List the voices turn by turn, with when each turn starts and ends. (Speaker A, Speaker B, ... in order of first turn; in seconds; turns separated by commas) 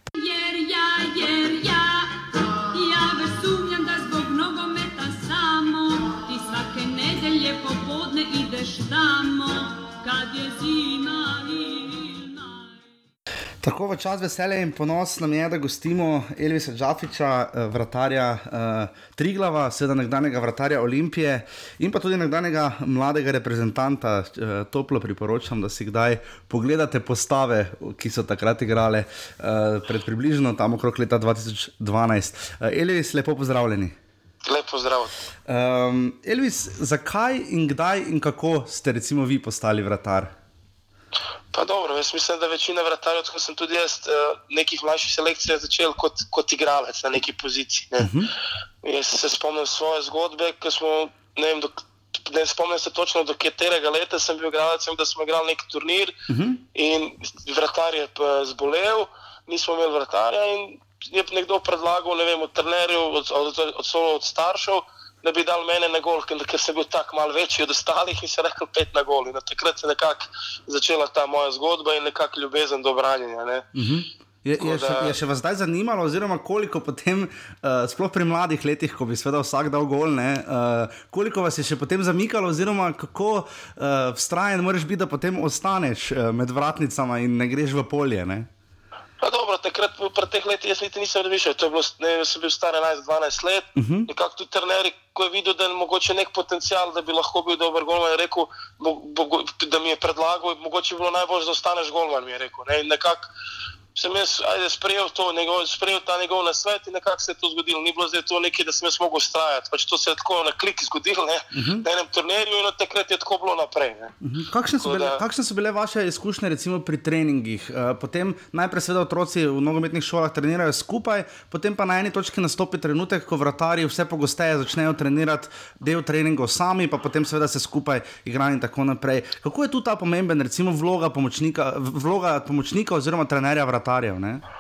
Speaker A: 0.1-12.8, Speaker B: 13.6-33.9, Speaker C: 34.4-35.1, Speaker B: 35.5-40.3, Speaker C: 41.5-48.1, Speaker B: 48.0-48.3, Speaker C: 48.8-56.1, Speaker B: 56.3-56.6, Speaker C: 56.7-73.7, Speaker B: 73.7-88.5, Speaker C: 74.6-75.1, Speaker C: 89.2-103.3, Speaker B: 93.8-94.1, Speaker C: 103.9-114.1, Speaker B: 111.5-111.8, Speaker B: 114.2-134.4, Speaker C: 114.8-115.2